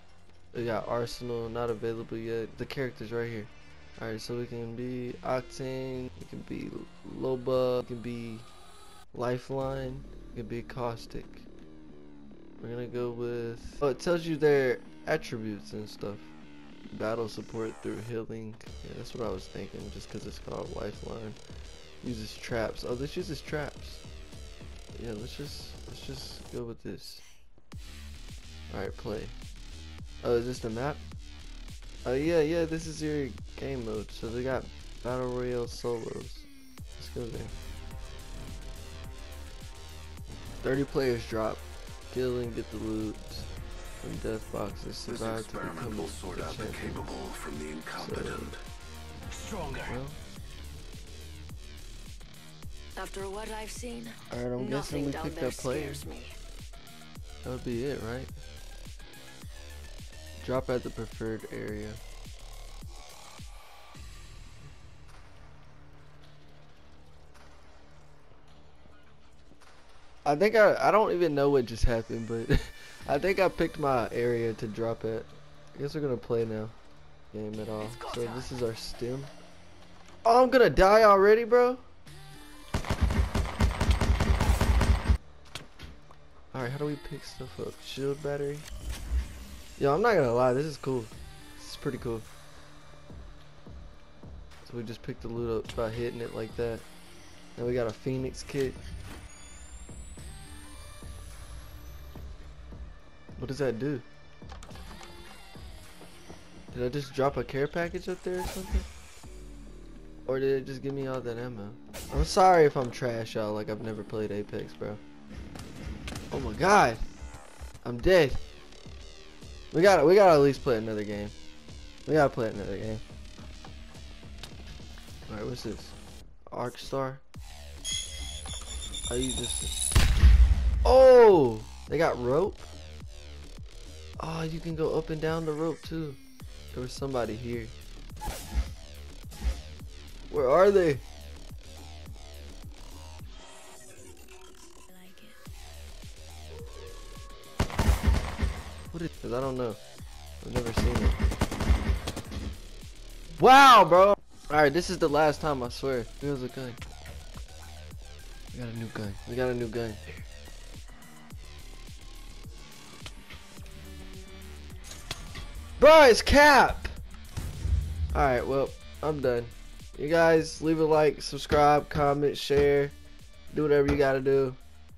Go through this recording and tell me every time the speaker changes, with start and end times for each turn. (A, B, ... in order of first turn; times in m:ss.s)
0:00.5-0:08.5 A
0:09.1-0:11.5 A
0:12.6-0:16.3 A
0:16.9-0:21.4 A
0:22.0-0:24.0 A
0:24.9-0:27.2 A
0:28.7-0:29.3 A
0:30.2-0:31.0 A
0:32.0-0:37.5 A
0:40.6-0:43.5 A
0:44.0-0:47.2 A
0:45.1-0:48.6 B
0:48.0-0:48.5 A
0:49.7-0:50.2 A
0:53.0-0:56.3 C
0:54.3-0:56.1 A
0:57.4-0:58.3 A
1:00.4-1:02.0 A
1:10.2-1:16.7 A
1:17.3-1:19.3 A
1:17.8-1:18.5 C
1:20.2-1:21.8 A
1:26.5-1:28.7 A
1:29.8-1:32.3 A
1:34.6-1:36.8 A
1:37.6-1:38.8 A
1:43.4-1:44.0 A
1:46.7-1:48.9 A
1:50.2-1:55.0 A
1:56.3-1:57.0 A
1:57.8-1:58.4 A
1:59.7-2:01.3 A
2:02.0-2:03.0 A
2:05.3-2:05.9 A
2:06.5-2:07.2 A
2:09.1-2:09.8 A
2:10.8-2:12.7 A
2:14.2-2:16.2 A
2:16.7-2:17.7 A
2:20.3-2:21.0 A
2:24.9-2:25.4 C
2:28.9-2:29.8 A
2:30.4-2:31.2 A
2:33.4-2:36.8 A
2:38.5-2:40.2 A
2:45.8-2:46.9 A
2:48.1-2:52.9 A
2:53.5-2:54.6 A